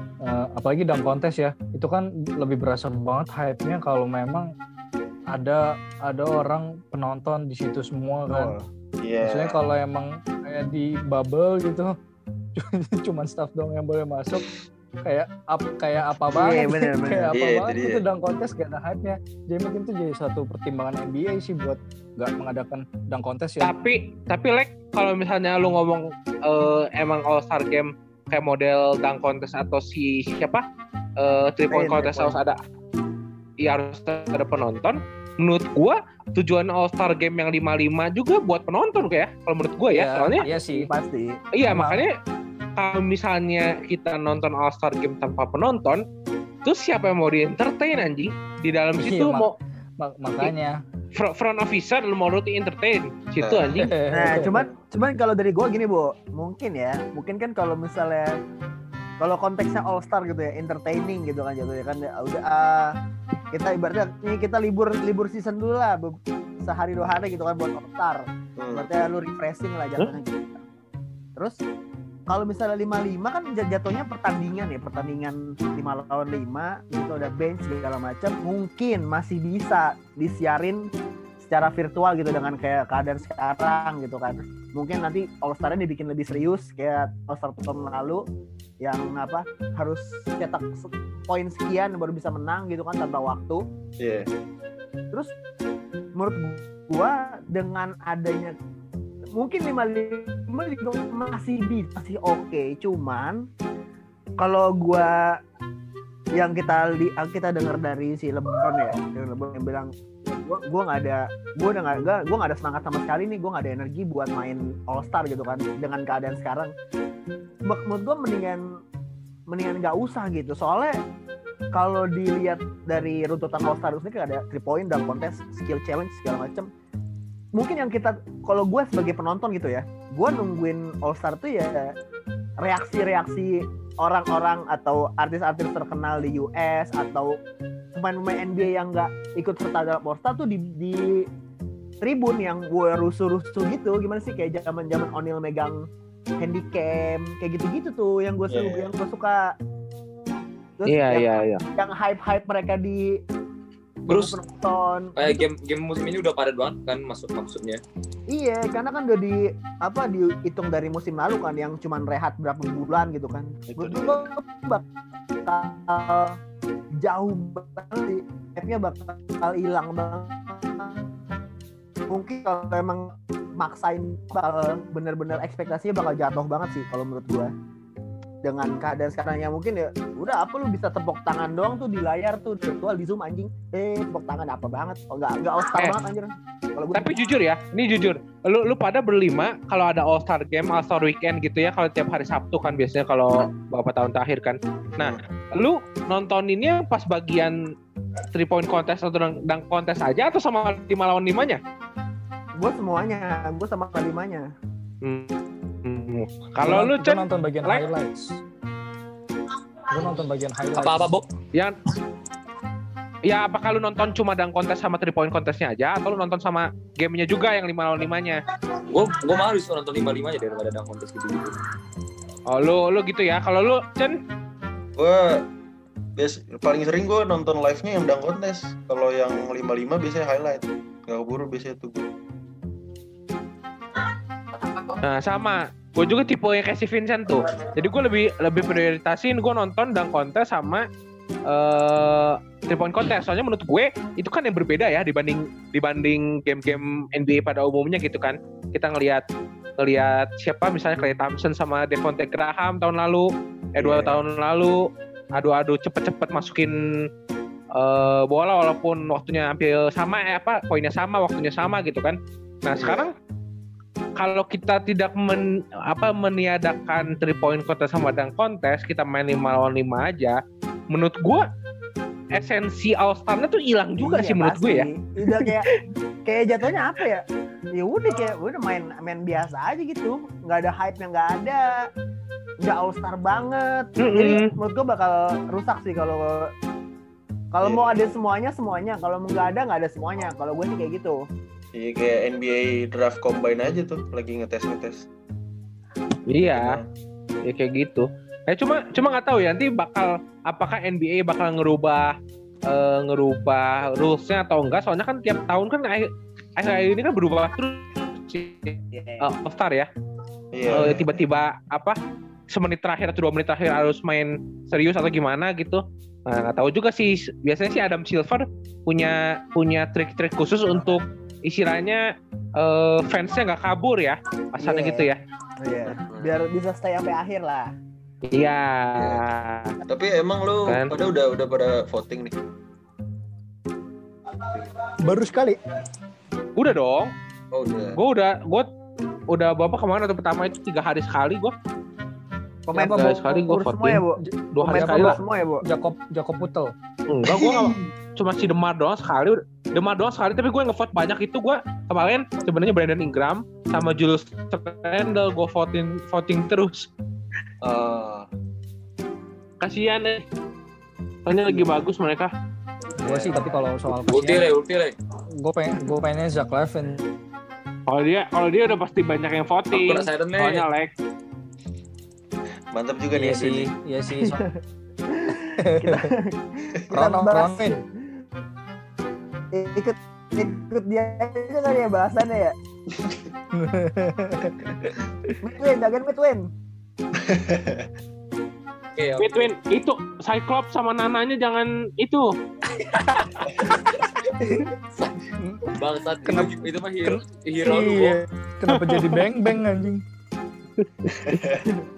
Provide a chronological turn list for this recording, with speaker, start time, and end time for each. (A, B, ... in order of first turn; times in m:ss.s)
0:00.2-0:04.5 A
0:05.3-0:08.5 A
0:08.3-0:08.7 B
0:09.0-0:09.6 C
0:09.2-0:11.9 A
0:12.6-0:14.4 A
0:15.0-0:23.7 A
0:16.3-0:17.4 B
0:17.3-0:18.0 C
0:23.6-0:30.6 D
0:31.2-0:32.6 D
0:31.7-0:32.4 B
0:33.6-0:40.4 D
0:39.9-0:40.9 A
0:40.5-0:41.4 B
0:41.6-0:42.1 D
0:41.7-0:42.0 A
0:42.8-0:46.0 D
0:46.6-0:49.5 D
0:49.0-0:49.5 A
0:50.0-0:50.8 A
0:51.2-0:53.9 D
0:53.4-0:54.7 C
0:53.8-0:54.6 A
0:54.1-0:58.3 B
0:59.2-1:02.9 B
1:03.5-1:10.6 B
1:08.6-1:08.9 C
1:12.3-1:20.9 B
1:21.4-1:28.2 B
1:28.8-1:33.6 B
1:34.0-1:34.3 C
1:36.2-1:38.6 B
1:39.4-1:43.5 B
1:44.4-1:45.1 B
1:46.4-1:56.7 B
1:57.7-1:58.6 B
1:59.5-2:01.0 B
2:01.7-2:06.7 B
2:07.6-2:11.9 B
2:12.6-2:17.4 B
2:18.0-2:21.2 B
2:22.0-2:25.8 B
2:26.4-2:29.5 B
2:28.5-2:28.9 C
2:30.8-2:33.1 B
2:30.9-2:31.6 D
2:34.1-2:35.4 B
2:34.1-2:34.4 E
2:35.2-2:37.8 E
2:38.3-2:44.8 B
2:43.7-2:44.3 C
2:45.5-2:46.4 B
2:47.0-2:51.0 B
2:52.1-2:57.5 B
2:58.4-3:07.1 B
3:06.9-3:17.6 D
3:18.3-3:21.6 D
3:22.6-3:24.5 B
3:25.0-3:27.8 D
3:26.6-3:28.4 A
3:29.9-3:31.1 A
3:30.8-3:31.3 E
3:33.3-3:38.4 D
3:38.9-3:41.6 E
3:42.5-3:44.2 D
3:45.0-3:45.4 C
3:46.2-3:52.1 C
3:55.0-4:00.9 D
4:01.5-4:09.2 D
4:09.8-4:14.8 D
4:13.8-4:14.2 C
4:15.4-4:16.7 D
4:17.8-4:23.1 D
4:22.8-4:23.1 C
4:24.2-4:30.4 D
4:30.9-4:31.5 D
4:32.3-4:35.7 D
4:34.0-4:35.7 B
4:36.3-4:41.8 B
4:42.6-4:46.5 B
4:44.0-4:44.5 D
4:47.5-4:51.2 B
4:47.6-4:48.1 C
4:51.7-4:55.1 C
4:56.3-4:56.7 D
4:56.4-4:56.9 C
4:57.5-5:02.1 D
5:02.7-5:09.9 D
5:08.9-5:09.3 B
5:10.5-5:11.2 C
5:10.7-5:12.0 D
5:12.5-5:22.1 D
5:22.6-5:25.2 D
5:24.6-5:25.1 B
5:25.6-5:27.7 B
5:25.8-5:26.3 C
5:28.3-5:29.8 D
5:29.0-5:29.3 C
5:29.8-5:32.4 C
5:30.7-5:30.9 D
5:35.0-5:35.6 A
5:36.6-5:37.1 D
5:37.5-5:38.0 C
5:38.0-5:38.7 D
5:39.3-5:41.5 D
5:42.7-5:45.6 B
5:42.8-5:44.0 D
5:44.2-5:46.7 A
5:44.6-5:45.2 D
5:47.1-5:56.9 D
5:47.3-5:47.9 C
5:57.6-5:58.3 C
5:59.6-6:00.2 D
6:01.3-6:02.3 D
6:03.0-6:04.5 A
6:04.1-6:05.0 E
6:05.4-6:07.0 A
6:07.9-6:10.9 D
6:09.7-6:10.6 E
6:12.7-6:13.7 C
6:13.1-6:14.4 A
6:14.2-6:14.6 B
6:15.1-6:17.7 B
6:15.6-6:16.1 A
6:16.9-6:17.8 A
6:19.5-6:22.6 B
6:22.9-6:23.3 C
6:23.6-6:24.6 A
6:25.4-6:26.5 B
6:27.2-6:27.9 C
6:29.0-6:29.5 E
6:29.2-6:32.3 D
6:35.4-6:35.7 A
6:35.8-6:38.2 E
6:36.2-6:40.0 A
6:38.8-6:39.2 D
6:40.8-6:41.4 D
6:41.2-6:41.8 C